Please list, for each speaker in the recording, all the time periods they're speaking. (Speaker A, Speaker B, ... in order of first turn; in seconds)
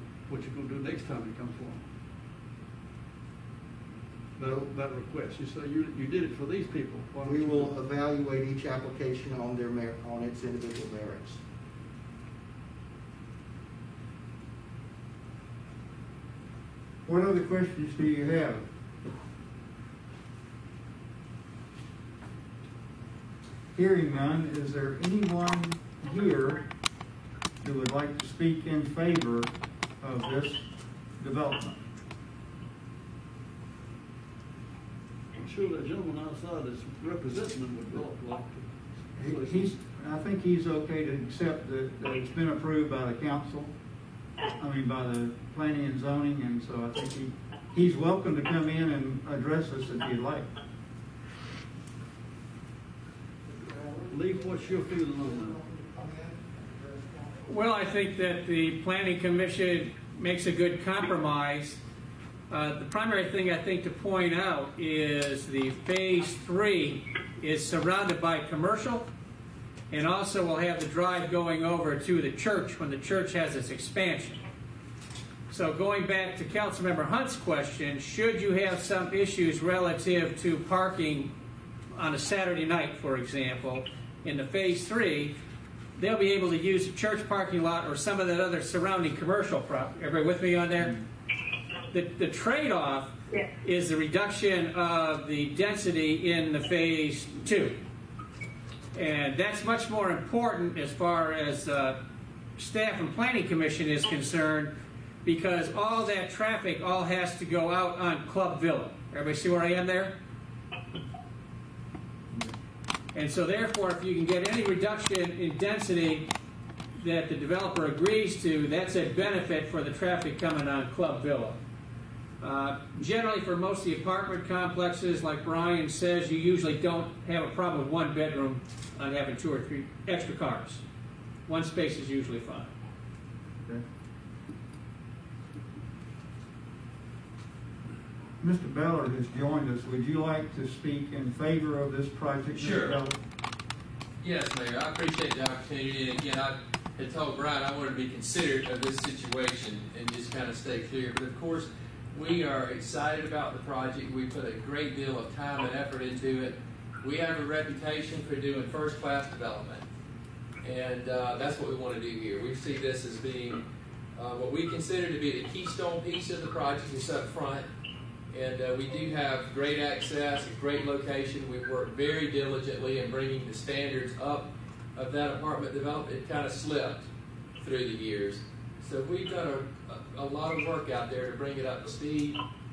Speaker A: 0.3-1.8, 4.4-7.7, 35.4-39.7, 54.1-55.6
Speaker B: 7.2-11.4, 53.5-57.4
Speaker C: 17.1-18.6, 23.7-26.6, 27.6-29.5, 30.0-30.6, 31.2-31.8, 39.2-43.7, 44.6-50.5, 138.4-143.2
Speaker D: 57.4-61.8, 62.5-69.0, 69.9-74.4, 75.5-81.3, 81.9-85.3, 86.0-90.9, 91.9-93.1, 93.6-97.8, 98.9-102.0, 102.6-104.7, 105.2-110.2, 113.1-116.3, 117.0-121.6, 122.4-130.8, 131.5-132.7
Speaker E: 142.5-143.0, 144.2-159.8, 160.6-167.7, 168.3-177.1, 177.6-182.4